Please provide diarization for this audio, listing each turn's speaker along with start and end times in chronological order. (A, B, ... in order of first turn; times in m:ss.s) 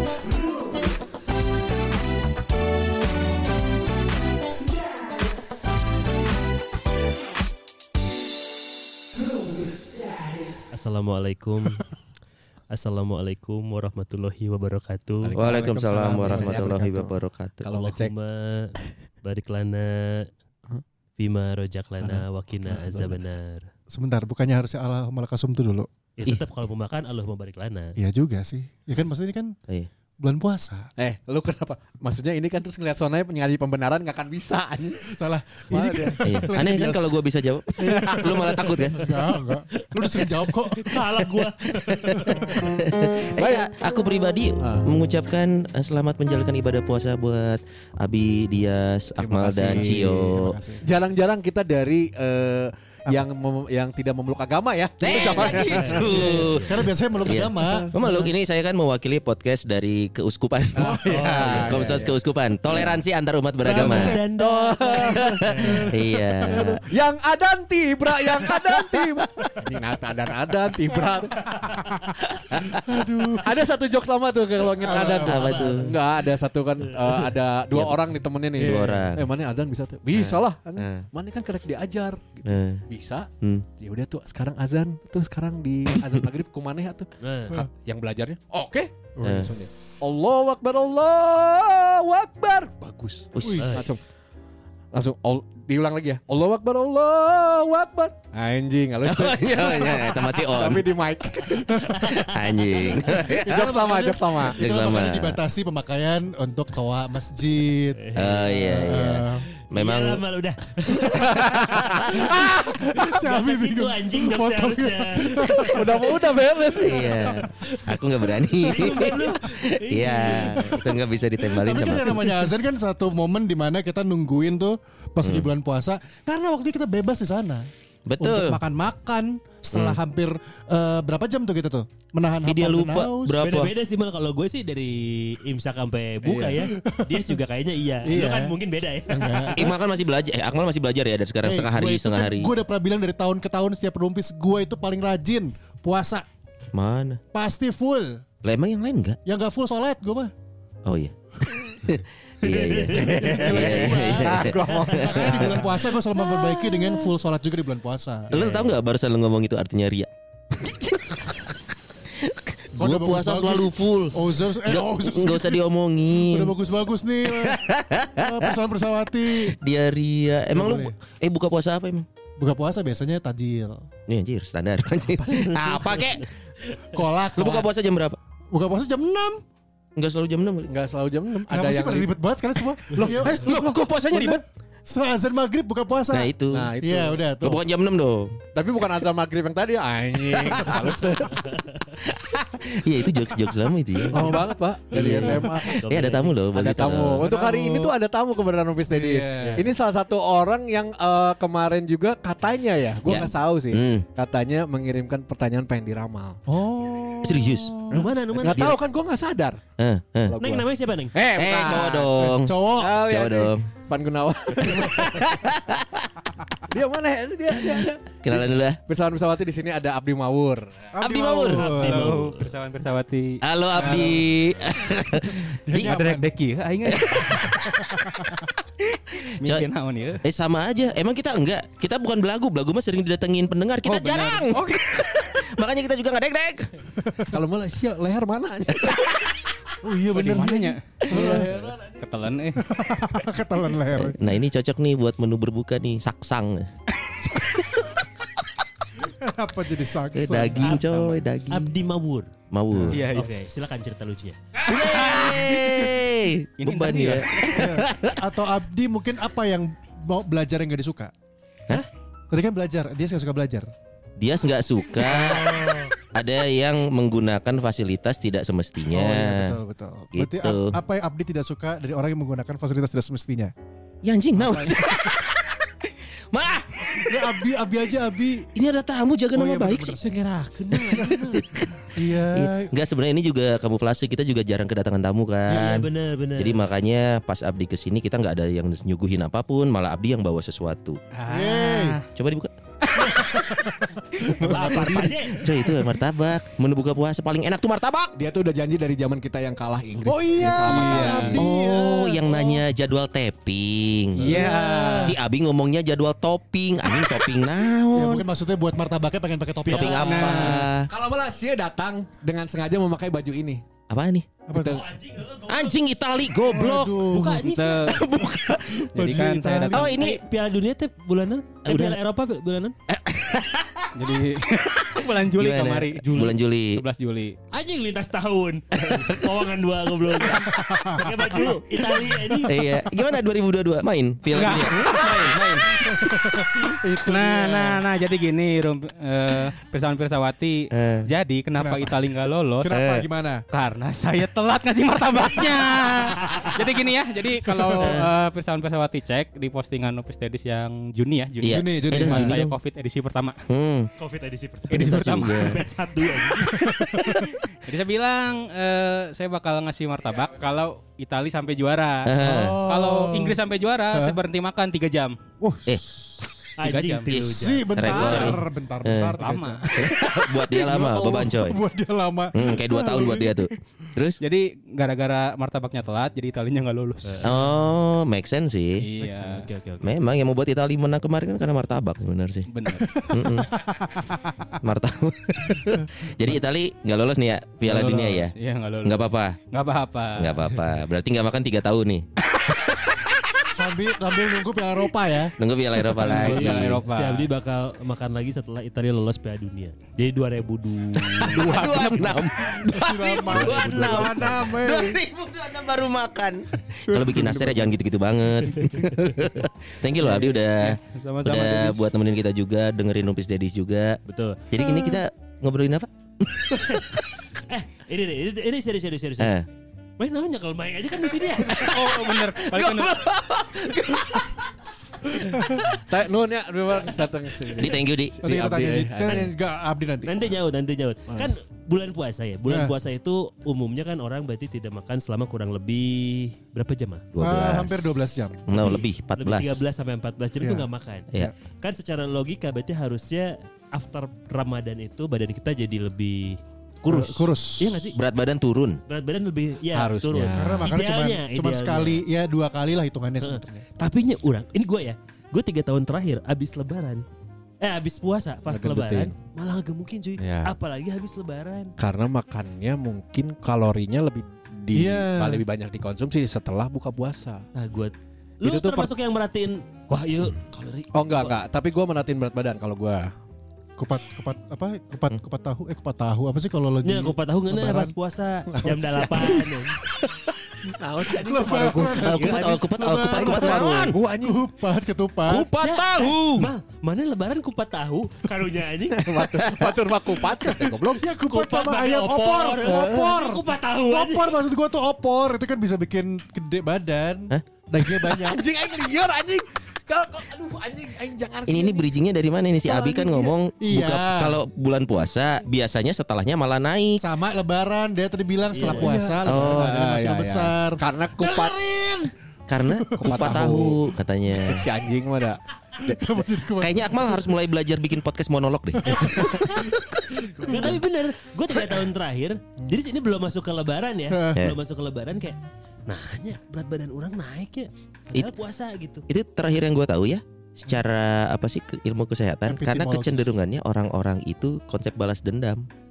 0:10.7-0:11.8 A
0:12.7-0:15.4 A
0:15.2-0:18.1 B
0:15.4-0:17.6 C
0:15.4-0:16.6 D
0:17.7-0:20.3 A
0:21.2-0:23.7 A
0:22.0-0:23.2 B
0:23.9-0:25.9 D
0:26.2-0:28.0 A
0:28.0-0:29.5 D
0:30.2-0:30.9 D
0:31.0-0:35.1 B
0:35.1-0:37.2 D
0:35.7-0:36.3 B
0:36.2-0:39.1 C
0:37.8-0:41.2 D
0:38.1-0:38.6 B
0:39.8-0:40.2 A
0:40.8-0:42.4 A
0:41.7-0:50.5 C
0:42.1-0:42.6 D
0:43.3-0:43.6 B
0:44.6-0:44.9 B
0:49.2-0:50.2 B
0:49.7-0:51.2 D
0:50.8-0:56.4 B
0:55.0-1:04.2 C
0:55.1-0:56.8 A
0:56.6-0:58.3 D
1:00.7-1:02.1 B
1:00.8-1:01.8 D
1:01.1-1:01.6 A
1:02.7-1:03.0 B
1:03.6-1:05.9 A
1:03.7-1:05.4 B
1:05.0-1:06.8 C
1:05.7-1:06.0 D
1:06.8-1:11.5 B
1:11.4-1:12.1 A
1:12.3-1:12.8 C
1:12.8-1:13.6 D
1:13.4-1:34.0 B
1:14.8-1:15.5 D
1:14.9-1:15.7 A
1:15.3-1:15.9 C
1:17.7-1:18.0 C
1:18.6-1:19.1 D
1:18.6-1:19.2 C
1:20.1-1:21.1 C
1:22.4-1:22.8 C
1:27.2-1:27.6 A
1:29.2-1:30.1 D
1:29.2-1:29.6 C
1:33.3-1:33.7 C
1:33.4-1:33.8 D
1:33.6-1:33.9 A
1:34.9-1:41.9 B
1:39.0-1:40.9 C
1:41.8-1:43.3 A
1:42.1-1:43.7 C
1:43.2-1:44.6 B
1:43.6-1:49.4 D
1:44.5-1:45.4 C
1:48.0-1:48.6 A
1:48.2-1:50.2 C
1:49.7-1:52.5 A
1:51.2-1:53.2 B
1:52.4-1:56.1 D
1:53.0-1:56.2 A
1:55.6-1:57.3 B
1:56.8-2:02.3 C
1:56.9-1:58.0 A
1:58.6-2:00.9 A
2:01.5-2:07.7 D
2:05.2-2:05.5 C
2:08.1-2:08.6 C
2:08.2-2:13.4 D
2:09.7-2:10.0 C
2:12.4-2:13.7 C
2:13.4-2:19.7 A
2:16.2-2:17.3 D
2:18.0-2:18.5 D
2:19.1-2:19.6 D
2:19.6-2:22.5 C
2:21.4-2:26.2 D
2:26.7-2:27.2 C
2:27.3-2:28.2 D
2:28.4-2:29.2 C
2:29.2-2:30.3 D
2:30.8-2:35.6 C
2:32.4-2:35.1 A
2:32.9-2:35.6 B
2:34.9-2:38.7 D
2:36.2-2:36.8 A
2:38.3-2:41.5 C
2:42.1-2:46.5 C
2:42.8-2:49.6 D
2:47.2-2:48.5 C
2:49.4-2:52.0 C
2:50.5-2:50.9 D
2:52.4-2:53.9 D
2:54.1-2:56.3 C
2:55.2-2:57.0 A
2:56.9-2:57.7 D
2:57.4-2:58.2 C
2:58.5-2:59.4 D
3:00.0-3:00.7 C
3:00.6-3:02.1 B
3:01.5-3:07.6 D
3:02.9-3:03.8 B
3:03.2-3:04.4 C
3:06.1-3:06.7 C
3:06.5-3:07.4 B
3:07.4-3:08.4 C
3:08.5-3:11.6 B
3:10.4-3:10.9 C
3:12.0-3:17.3 C
3:14.1-3:15.8 B
3:14.1-3:14.4 D
3:15.6-3:16.4 A
3:16.5-3:26.4 B
3:17.2-3:17.9 D
3:18.9-3:19.7 D
3:19.4-3:19.6 A
3:23.0-3:24.0 C
3:26.5-3:28.1 D
3:27.2-3:27.7 C
3:27.9-3:28.8 A
3:27.9-3:29.6 B
3:28.5-3:28.8 C
3:29.8-3:30.4 C
3:30.2-3:35.4 B
3:30.4-3:31.2 A
3:31.4-3:33.6 C
3:32.3-3:32.9 D
3:34.6-3:36.1 C
3:36.7-3:40.8 B
3:37.7-3:38.8 C
3:40.9-3:42.2 D
3:41.0-3:41.9 C
3:41.6-3:42.5 A
3:41.8-3:43.4 E
3:43.4-3:45.9 C
3:43.7-3:44.2 D
3:45.1-3:46.3 D
3:45.8-3:47.6 E
3:46.9-3:47.6 C
3:47.6-3:48.4 D
3:49.1-3:50.2 E
3:49.4-3:49.7 C
3:50.2-3:56.7 C
3:53.8-3:54.5 D
3:57.0-3:57.3 D
3:57.3-3:59.2 B
3:59.8-4:01.7 D
4:00.1-4:02.6 E
4:01.1-4:01.4 B
4:02.6-4:04.2 D
4:04.0-4:06.7 C
4:09.0-4:11.2 D
4:10.1-4:11.7 C
4:11.5-4:12.3 A
4:12.5-4:13.1 C
4:12.7-4:13.0 D
4:12.9-4:13.3 E
4:13.1-4:14.4 A
4:14.6-4:18.2 C
4:16.6-4:17.5 E
4:17.5-4:21.1 D
4:22.3-4:23.7 D
4:24.2-4:25.6 C
4:25.1-4:25.9 D
4:25.5-4:25.9 A
4:26.1-4:29.6 C
4:28.9-4:33.5 D
4:30.1-4:30.8 C
4:34.0-4:37.1 C
4:34.3-4:35.2 D
4:37.0-4:38.5 D
4:38.5-4:40.0 C
4:39.3-4:40.2 D
4:40.0-4:41.4 A
4:40.8-4:51.0 C
4:41.9-4:42.7 D
4:45.5-4:45.8 D
4:45.5-4:46.6 A
4:51.2-4:52.0 E
4:51.3-4:52.0 D
4:52.1-4:52.5 C
4:52.9-4:53.1 E
4:53.0-4:53.2 A
4:53.3-4:55.7 D
4:54.4-4:55.4 A
4:54.6-4:58.1 C
4:58.2-5:01.4 B
5:00.0-5:02.6 D
5:00.4-5:04.4 C
5:04.2-5:05.1 E
5:04.2-5:05.0 D
5:04.4-5:05.0 A
5:04.9-5:08.2 C
5:07.9-5:10.5 D
5:09.7-5:10.9 C
5:09.7-5:13.6 B
5:10.0-5:10.6 E
5:13.9-5:14.3 C
5:14.5-5:14.9 D
5:14.5-5:15.8 A
5:15.5-5:17.0 C
5:16.4-5:17.5 D
5:17.1-5:18.0 A
5:17.4-5:18.0 E
5:17.9-5:20.2 C
5:18.9-5:19.9 E
5:19.0-5:19.8 D
5:19.7-5:22.7 A
5:21.6-5:22.0 C
5:22.9-5:23.9 C
5:24.0-5:27.3 E
5:25.3-5:26.8 C
5:27.5-5:32.5 A
5:28.8-5:29.1 C
5:30.4-5:31.5 D
5:32.5-5:35.4 C
5:34.3-5:35.9 E
5:35.8-5:37.8 D
5:37.0-5:42.9 E
5:40.7-5:41.1 C
5:41.6-5:42.0 D
5:42.6-5:43.4 D
5:42.7-5:43.0 C
5:43.5-5:53.4 E
5:47.5-5:48.0 D
5:47.8-5:48.1 C
5:51.4-5:52.5 C
5:51.4-5:52.4 D
5:53.5-5:53.9 C
5:54.0-5:56.8 A
5:54.7-5:55.6 E
5:54.8-5:55.6 C
5:56.6-5:57.3 C
5:57.5-6:05.2 E
6:02.0-6:02.6 C
6:02.2-6:03.4 D
6:03.9-6:04.2 D
6:05.4-6:06.2 D
6:06.6-6:08.3 A
6:06.6-6:07.3 E
6:07.1-6:09.2 C
6:07.3-6:13.5 D
6:07.9-6:08.3 E
6:09.2-6:09.7 E
6:09.7-6:11.6 C
6:12.3-6:14.2 C
6:14.2-6:17.3 E
6:17.0-6:17.4 A
6:17.2-6:18.8 C
6:18.8-6:19.6 E
6:19.0-6:19.5 D
6:19.2-6:19.9 A
6:19.8-6:22.5 C
6:22.5-6:22.8 E
6:22.8-6:24.5 D
6:23.1-6:23.5 C
6:24.6-6:29.4 C
6:27.6-6:30.4 E
6:30.2-6:32.0 C
6:33.5-6:35.3 D
6:35.4-6:36.8 C
6:36.0-6:37.3 B
6:36.1-6:41.4 A
6:41.2-6:42.3 E
6:41.2-6:54.0 C
6:42.5-6:45.0 D
6:43.3-6:44.4 A
6:46.8-6:47.7 D
6:50.0-6:51.9 E
6:54.1-6:54.4 A
6:54.5-6:56.8 C
6:54.6-6:55.0 D
6:56.5-6:59.4 A
6:59.2-6:59.4 C
7:00.0-7:01.7 A
7:01.5-7:03.0 E
7:01.6-7:04.4 C
7:05.9-7:09.3 B
7:07.5-7:08.1 C
7:08.2-7:10.1 D
7:10.0-7:17.0 A
7:12.5-7:12.7 D
7:17.1-7:19.6 C
7:17.2-7:18.4 D
7:18.5-7:21.1 A
7:20.4-7:21.3 D
7:21.6-7:28.0 A
7:26.8-7:27.9 D
7:27.9-7:28.8 C
7:28.9-7:32.0 A
7:29.7-7:30.7 B
7:30.3-7:33.6 D
7:33.2-7:37.0 A
7:37.6-7:41.7 A
7:38.5-7:39.1 B
7:40.2-7:40.5 B
7:41.8-7:47.4 B
7:44.7-7:45.4 D
7:47.5-7:51.3 A
7:48.4-7:48.9 B
7:50.9-7:53.1 B
7:53.8-7:57.9 D
7:56.8-7:59.8 A
7:58.5-7:59.4 D
8:00.8-8:04.4 B
8:01.2-8:05.5 D
8:01.8-8:04.0 C
8:05.3-8:06.5 C
8:05.6-8:09.2 A
8:09.0-8:11.0 B
8:09.4-8:09.7 C
8:10.4-8:18.4 D
8:11.3-8:14.4 A
8:18.1-8:21.9 B
8:21.5-8:27.0 C
8:22.6-8:24.4 D
8:27.0-8:33.3 D
8:28.5-8:29.2 A
8:28.6-8:31.6 B
8:29.2-8:29.7 C
8:32.5-8:34.6 C
8:33.0-8:33.8 B
8:34.3-8:36.2 B
8:35.8-8:37.3 D
8:36.6-8:39.8 C
8:38.8-8:49.0 A
8:40.4-8:40.8 D
8:44.1-8:44.4 D
8:49.1-8:55.7 C
8:52.5-8:53.4 D